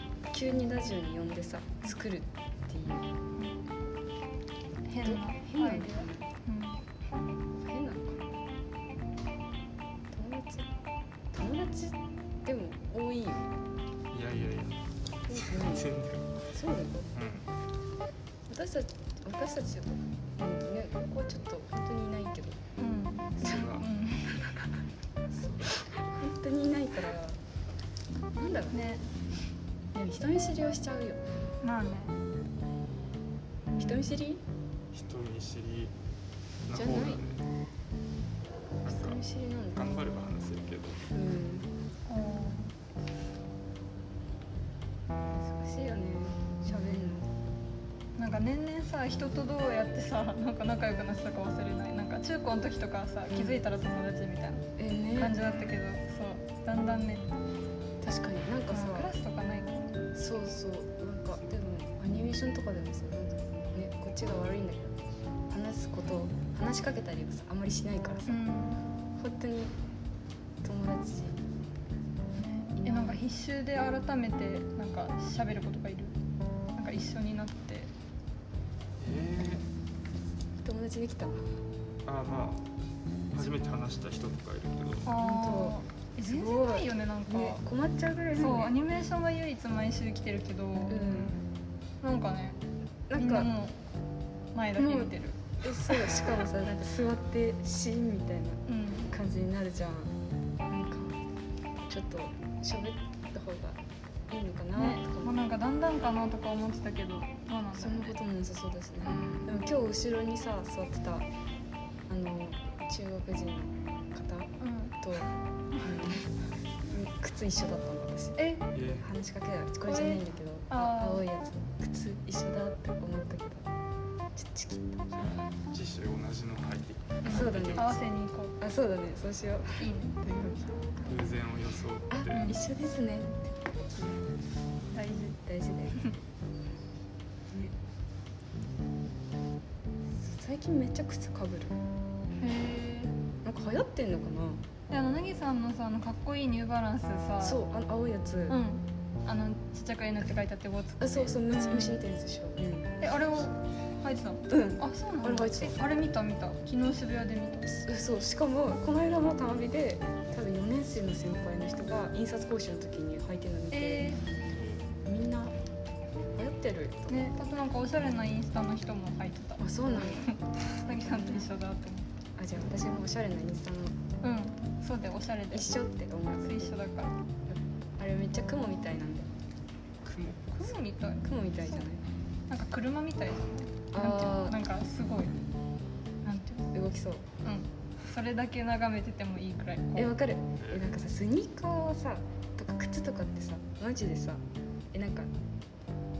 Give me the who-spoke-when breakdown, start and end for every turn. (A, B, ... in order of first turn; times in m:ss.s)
0:00.3-0:03.1 A
0:04.9-0:06.8 B
0:05.0-0:06.3 A
0:07.6-0:08.3 A
0:10.1-0:10.7 A
0:11.3-0:13.5 A
0:14.1-0:16.4 C
0:15.3-0:15.9 A
0:16.5-0:17.1 A
0:17.1-0:17.5 C
0:18.5-0:22.6 A
0:22.8-0:24.7 B
0:23.4-0:23.9 C
0:25.3-0:25.9 C
0:26.1-0:27.4 A
0:28.4-0:28.8 A
0:28.7-0:29.0 B
0:29.9-0:31.2 A
0:31.6-0:32.1 B
0:33.7-0:34.1 B
0:33.8-0:34.4 A
0:34.9-0:35.9 C
0:36.6-0:37.4 C
0:36.7-0:37.2 A
0:38.8-0:39.2 C
0:38.8-0:39.8 A
0:39.7-0:41.0 C
0:41.1-0:41.7 A
0:42.1-0:42.7 B
0:45.3-0:47.3 A
0:48.2-0:54.6 B
0:53.3-0:53.6 A
0:54.8-0:55.4 A
0:55.2-0:57.3 B
0:58.0-0:59.1 A
0:58.7-0:59.9 B
1:00.1-1:05.0 A
1:05.5-1:08.4 A
1:08.3-1:08.8 B
1:09.2-1:09.7 A
1:10.6-1:11.4 A
1:12.4-1:16.2 B
1:12.8-1:13.2 A
1:16.7-1:17.9 B
1:19.0-1:19.6 C
1:20.6-1:21.5 A
1:22.0-1:22.7 C
1:23.3-1:25.1 C
1:25.0-1:27.6 B
1:25.1-1:28.8 A
1:28.4-1:31.3 B
1:30.9-1:31.4 A
1:31.1-1:31.4 C
1:32.0-1:32.6 B
1:33.1-1:33.5 A
1:33.2-1:33.8 B
1:34.5-1:36.3 B
1:34.8-1:40.1 A
1:38.7-1:39.1 B
1:40.7-1:41.2 A
1:41.9-1:45.3 A
1:44.7-1:48.2 B
1:47.8-1:51.2 A
1:49.1-1:49.4 B
1:52.1-1:55.3 A
1:54.6-1:55.0 B
1:55.8-1:56.3 A
1:56.8-1:58.4 A
1:58.4-1:58.6 B
1:58.7-1:59.1 C
1:59.0-2:03.7 A
1:59.8-2:01.2 B
2:04.3-2:05.3 A
2:05.7-2:08.0 C
2:07.2-2:08.5 B
2:07.2-2:08.0 A
2:08.6-2:11.0 A
2:09.8-2:10.1 B
2:11.0-2:12.6 C
2:12.1-2:14.3 A
2:12.3-2:12.6 B
2:14.9-2:15.4 B
2:15.4-2:16.0 A
2:20.2-2:21.8 A
2:22.4-2:23.1 B
2:23.4-2:24.6 A
2:24.9-2:27.6 B
2:27.4-2:28.6 A
2:28.5-2:32.0 B
2:31.0-2:32.9 A
2:33.0-2:37.7 B
2:34.5-2:35.8 A
2:37.7-2:44.2 A
2:43.7-2:44.2 B
2:45.0-2:45.6 A
2:46.3-2:47.4 A
2:47.1-2:52.1 B
2:49.6-2:50.3 A
2:50.9-2:51.5 A
2:52.4-2:54.0 A
2:54.2-2:55.7 B
2:55.5-2:56.7 A
2:56.4-2:57.1 B
2:57.5-2:59.3 A
3:00.0-3:00.7 C
3:00.6-3:01.8 B
3:01.2-3:02.0 A
3:02.5-3:05.4 B
3:03.9-3:04.6 A
3:06.2-3:06.7 B
3:06.7-3:07.3 A
3:07.4-3:10.2 B
3:10.0-3:15.3 A
3:10.6-3:10.9 C